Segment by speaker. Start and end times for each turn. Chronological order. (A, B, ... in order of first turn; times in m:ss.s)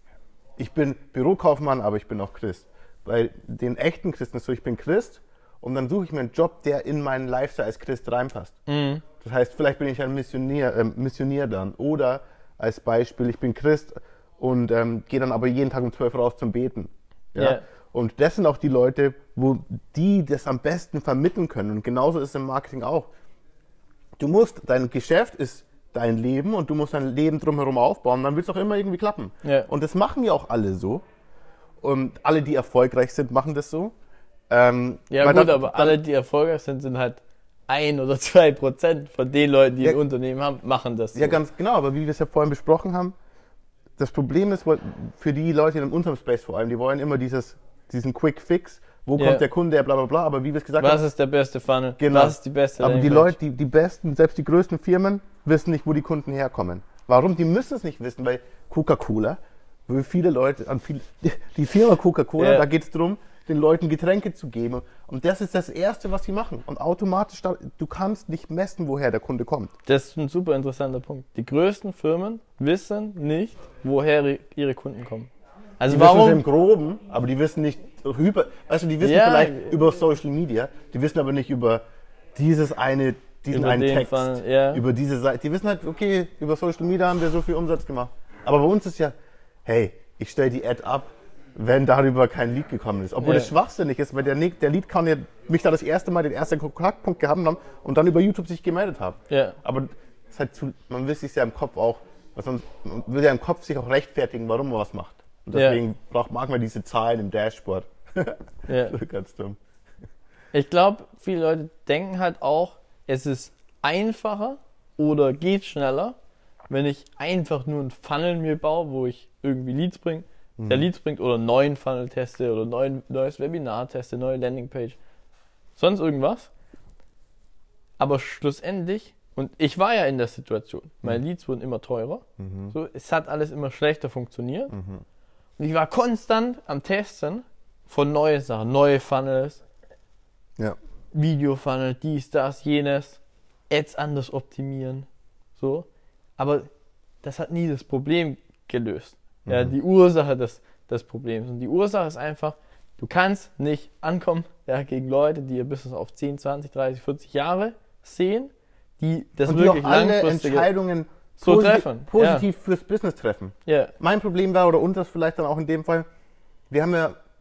0:00.6-0:08.6 A
0:08.7-0:09.0 B
0:09.2-0:23.1 A
0:17.4-0:17.6 B
0:24.2-0:31.0 A
0:29.4-0:29.7 B
0:31.8-0:33.9 A
0:34.5-0:36.0 A
0:35.1-0:41.4 B
0:41.1-0:43.1 A
0:44.0-0:51.0 A
0:49.2-0:49.4 B
0:50.8-0:53.3 B
0:52.0-1:09.7 A
1:02.4-1:02.6 B
1:09.8-1:16.4 B
1:15.9-1:21.8 A
1:19.0-1:19.8 B
1:22.3-1:29.1 A
1:23.5-1:24.8 B
1:29.6-1:49.6 A
1:33.2-1:33.5 B
1:39.3-1:39.6 B
1:45.5-1:45.8 B
1:48.7-1:49.0 B
1:50.5-1:56.2 B
1:56.7-2:05.0 B
2:00.6-2:00.9 A
2:05.8-2:06.5 B
2:08.0-2:14.7 B
2:12.4-2:12.7 A
2:14.7-2:15.0 A
2:15.6-2:19.6 B
2:21.1-2:25.8 B
2:26.4-2:26.7 B
2:27.2-2:40.7 B
2:29.4-2:29.7 A
2:39.4-2:46.0 A
2:41.4-2:42.4 B
2:43.6-2:43.9 B
2:46.7-2:47.1 A